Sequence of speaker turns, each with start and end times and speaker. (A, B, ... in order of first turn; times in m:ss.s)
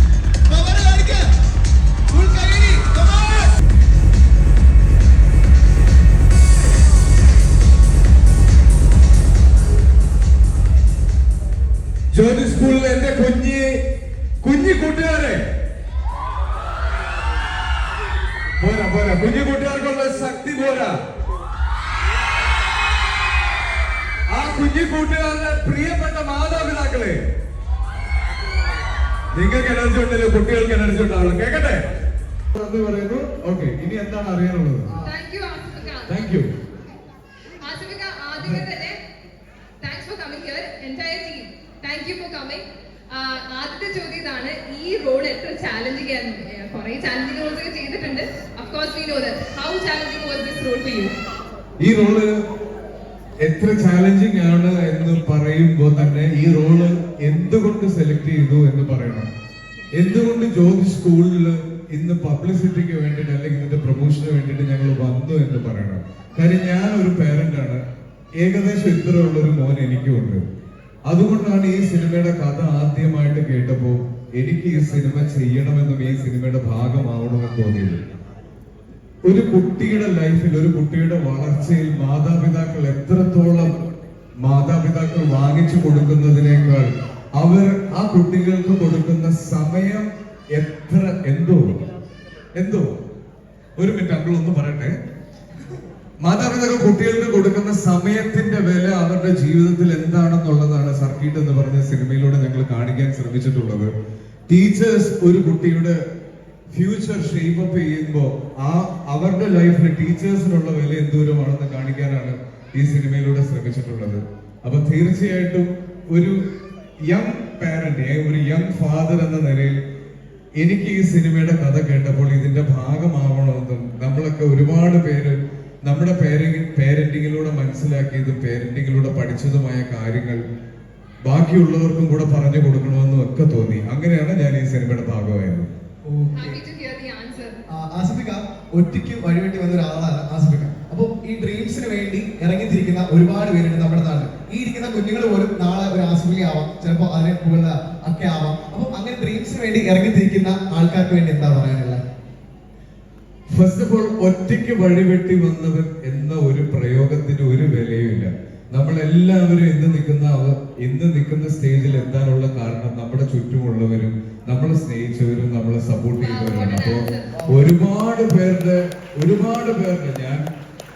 0:00.5-0:01.2 A
0:02.1-0:03.5 A
0:12.1-0:13.8 B
0:14.4-0:15.4 B
0:18.6-0:21.0 B
0:24.3-0:27.2 B
0:29.3-0:31.8 B
0:32.6-0:35.0 B
0:35.0-0:36.3 C
0:36.1-0:36.5 B
0:37.6-0:39.0 C
0:39.8-0:51.1 C
0:51.8-0:52.4 B
0:53.4-0:59.3 B
0:59.8-1:00.3 C
0:59.9-1:07.8 B
1:08.4-1:10.4 B
1:11.1-1:18.0 B
1:19.2-1:23.8 B
1:24.4-1:31.8 B
1:32.6-1:32.9 B
1:33.8-1:35.0 B
1:36.2-1:43.9 B
1:44.5-1:46.0 B
1:46.7-1:56.4 B
1:57.0-1:59.8 B
2:00.6-2:10.4 B
2:11.3-2:15.7 B
2:16.1-2:16.6 A
2:16.3-2:17.6 C
2:17.7-2:32.0 A
2:33.5-2:50.4 B
2:46.2-2:47.4 C
2:47.4-2:47.6 A